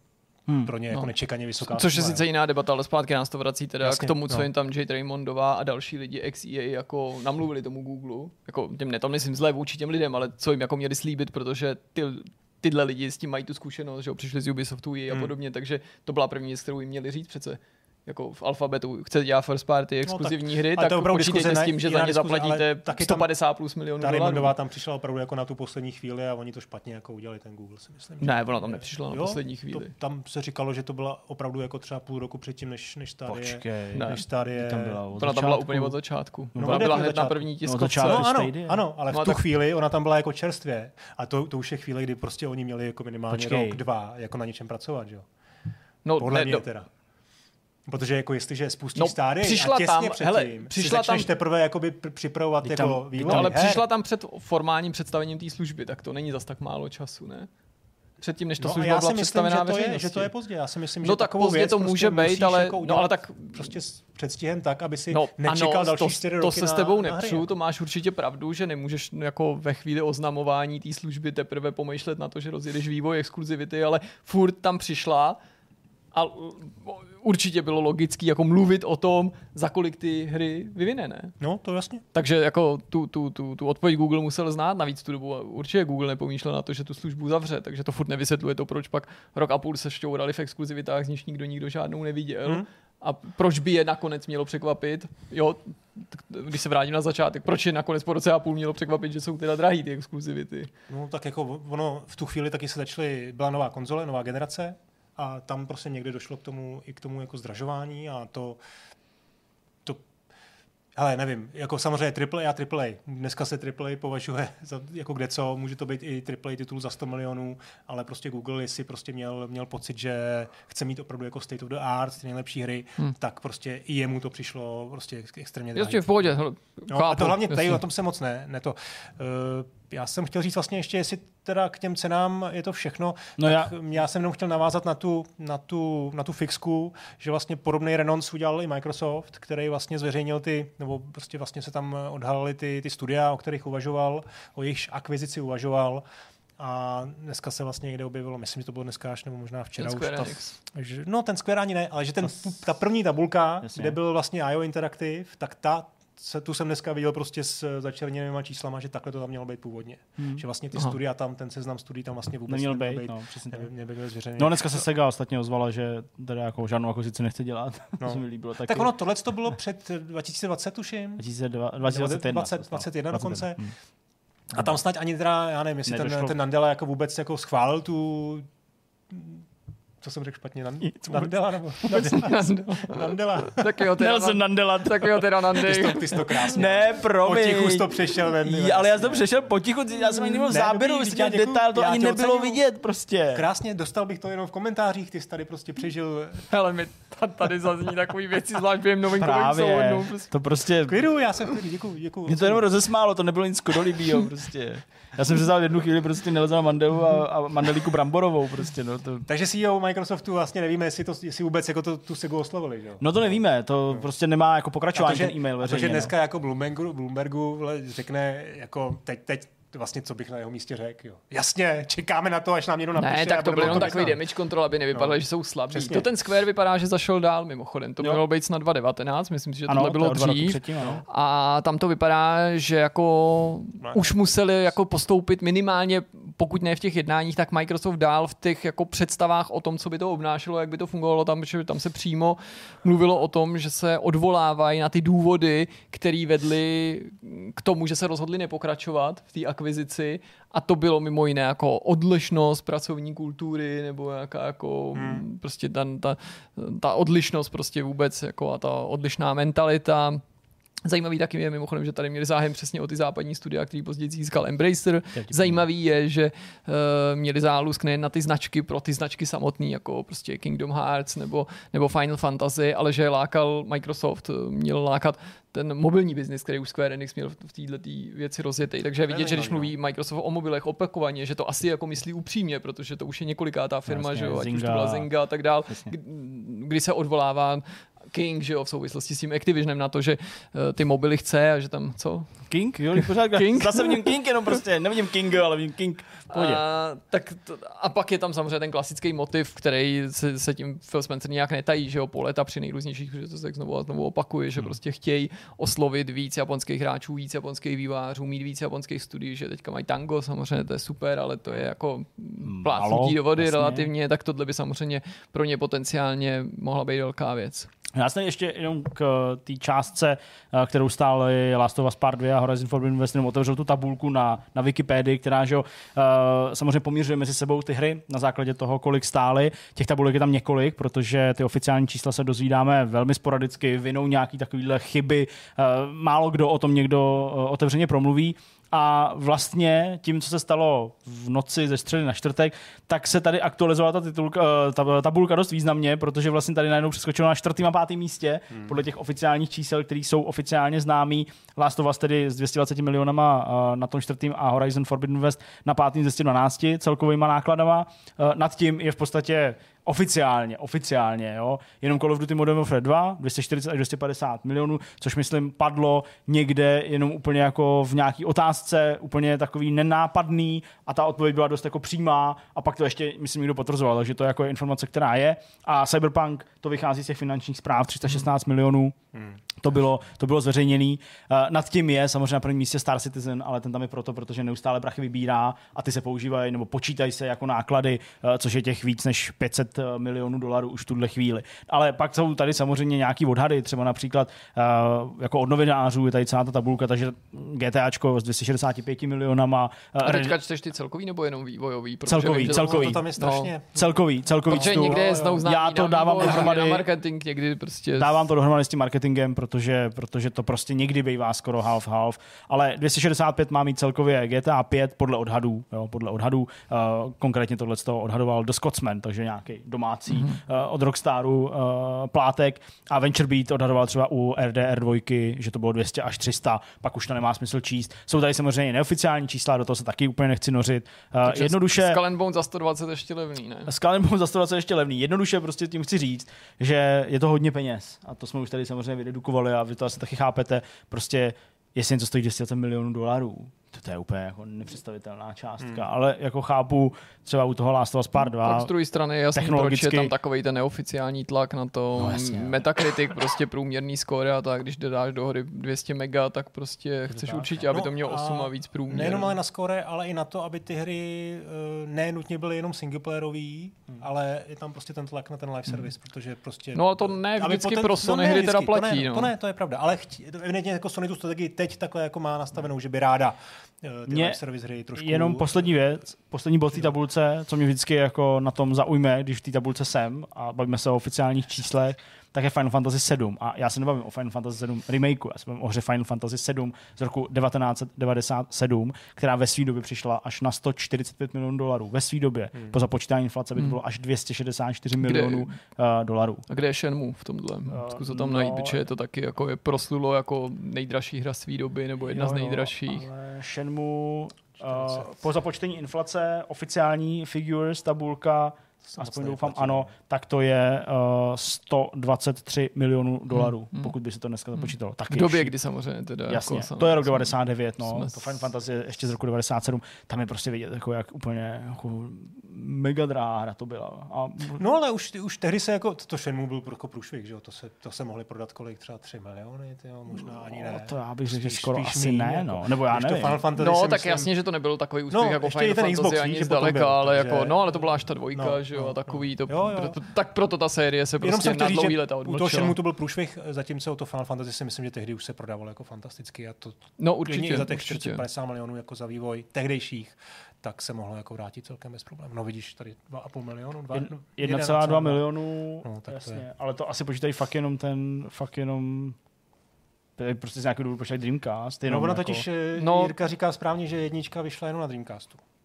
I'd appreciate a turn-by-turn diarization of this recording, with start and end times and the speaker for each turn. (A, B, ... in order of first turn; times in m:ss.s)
0:00.5-0:00.7 A
0:00.6-0:02.2 B
0:01.6-0:24.5 C
0:03.8-0:04.5 B
0:20.0-0:23.3 B
0:24.0-0:35.0 B
0:28.2-0:29.9 C
0:33.2-0:36.0 A
0:33.9-0:34.2 C
0:35.2-0:38.3 C
0:36.5-0:37.1 A
0:36.6-0:45.2 B
0:37.6-0:38.8 A
0:39.1-0:39.4 C
0:43.3-0:43.8 A
0:46.0-0:46.6 C
0:46.2-0:46.9 B
0:47.9-0:53.8 B
0:49.0-0:51.3 C
0:52.6-0:53.5 A
0:53.2-0:57.5 C
0:58.2-1:00.3 C
0:58.6-1:07.5 B
1:01.0-1:03.7 C
1:05.1-1:15.4 C
1:16.1-1:21.4 C
1:21.4-1:22.0 B
1:22.1-1:40.7 C
1:40.9-1:48.6 B
1:50.9-2:06.3 B
2:05.7-2:07.8 C
2:06.9-2:26.0 B
2:13.4-2:13.7 A
2:26.6-2:44.8 B
2:29.8-2:30.5 C
2:33.6-2:34.0 A
2:40.2-2:40.4 A
2:42.5-2:43.7 A
2:44.4-2:48.9 A
2:48.0-2:51.2 B
2:51.2-2:53.7 A
2:51.8-2:53.6 B
2:54.5-2:58.5 B
2:55.8-2:56.4 A
2:59.1-2:59.4 B
3:00.0-3:03.6 B
3:00.8-3:01.3 A
3:01.8-3:06.7 C
3:04.0-3:05.9 A
3:05.6-3:09.3 B
3:06.5-3:13.4 A
3:10.5-3:12.6 B
3:13.3-3:16.5 B
3:16.5-3:20.3 C
3:19.2-3:21.0 A
3:20.9-3:22.7 B
3:22.3-3:29.3 A
3:29.3-3:33.1 B
3:33.0-3:36.1 A
3:34.9-3:44.2 B
3:43.0-4:20.2 C
3:43.6-3:44.0 A
3:44.9-3:45.2 B
3:45.7-3:46.1 B
3:49.7-3:51.0 A
3:53.8-3:54.3 B
4:14.9-4:15.2 B
4:20.8-4:54.2 C
4:25.1-4:25.6 A
4:39.1-4:39.7 B
4:43.9-4:45.1 A
4:45.7-4:45.9 A
4:52.5-4:56.6 A
4:56.3-5:17.7 C
5:12.4-5:13.9 A
5:17.9-6:19.0 A
6:19.6-6:40.4 A
6:40.0-6:43.5 C
6:42.1-6:43.0 A
6:42.2-6:45.4 B
6:43.7-6:46.9 A
6:44.5-6:48.3 C
6:48.0-7:12.0 A
7:00.1-7:00.4 C
7:11.2-7:13.7 C
7:13.7-7:28.7 A
7:25.6-7:25.9 B
7:28.4-7:39.4 C
7:29.3-7:30.1 A
7:32.0-7:32.6 A
7:37.1-7:37.7 A
7:37.3-7:56.1 B
7:46.7-7:49.3 C
7:54.1-7:54.4 A
7:55.0-8:16.4 A
8:15.0-8:15.5 C
8:16.5-8:23.0 C
8:17.7-8:18.8 A
8:22.0-8:35.5 A
8:24.6-8:25.3 B
8:28.8-8:29.9 B
8:33.3-8:33.9 C
8:34.5-8:37.3 C
8:36.3-8:44.6 A
8:37.8-8:38.4 C
8:44.6-8:54.3 B
8:50.6-8:53.4 A
8:53.6-9:02.7 C
8:55.1-9:00.0 B
9:01.2-9:15.3 B
9:07.0-9:08.2 C
9:13.9-9:19.2 A
9:15.8-9:16.4 B
9:20.2-9:22.4 A
9:21.9-9:25.4 B
9:22.8-9:23.1 C